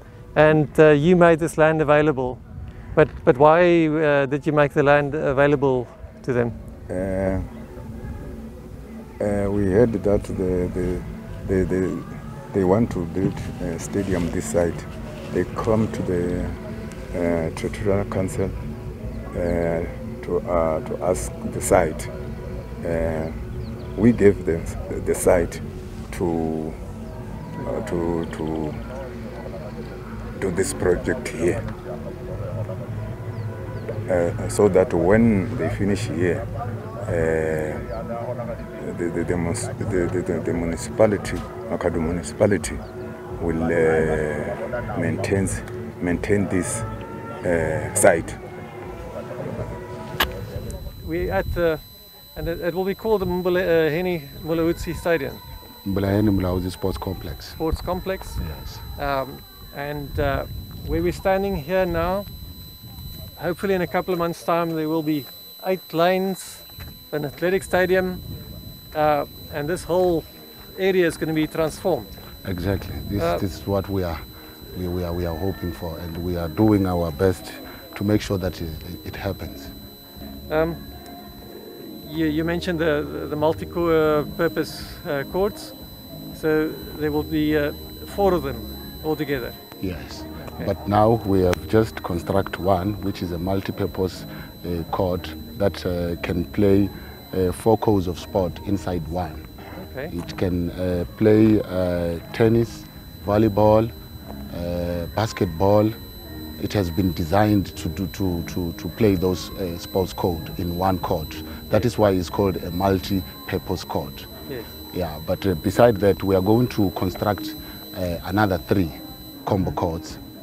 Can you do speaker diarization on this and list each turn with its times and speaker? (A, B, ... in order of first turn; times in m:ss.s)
0:00.3-0:02.4 A
0:03.0-0:06.6 A
0:06.9-0:07.5 B
0:09.2-0:16.6 B
0:17.1-0:18.5 B
0:19.3-0:22.1 B
0:22.8-0:23.3 B
0:24.0-0:26.8 B
0:27.6-0:28.8 B
0:30.4-0:31.6 B
0:34.1-0:36.5 B
0:37.0-0:37.8 B
0:38.8-0:42.8 B
0:43.4-0:46.8 B
0:47.4-0:48.4 B
0:51.0-0:55.4 A
0:55.8-0:57.6 C
0:57.6-0:58.4 A
0:58.4-0:58.8 C
0:59.0-1:02.3 A
1:03.4-1:08.2 A
1:08.9-1:12.1 A
1:12.4-1:14.2 C
1:13.2-1:13.4 A
1:14.7-1:19.7 C
1:20.5-1:20.8 A
1:21.5-1:25.7 A
1:26.3-1:29.6 A
1:29.8-1:39.5 C
1:30.4-1:30.7 A
1:39.8-1:40.1 A
1:40.1-1:43.9 C
1:44.5-1:46.0 C
1:46.6-1:54.3 C
1:54.5-1:54.7 A
1:54.9-2:00.2 C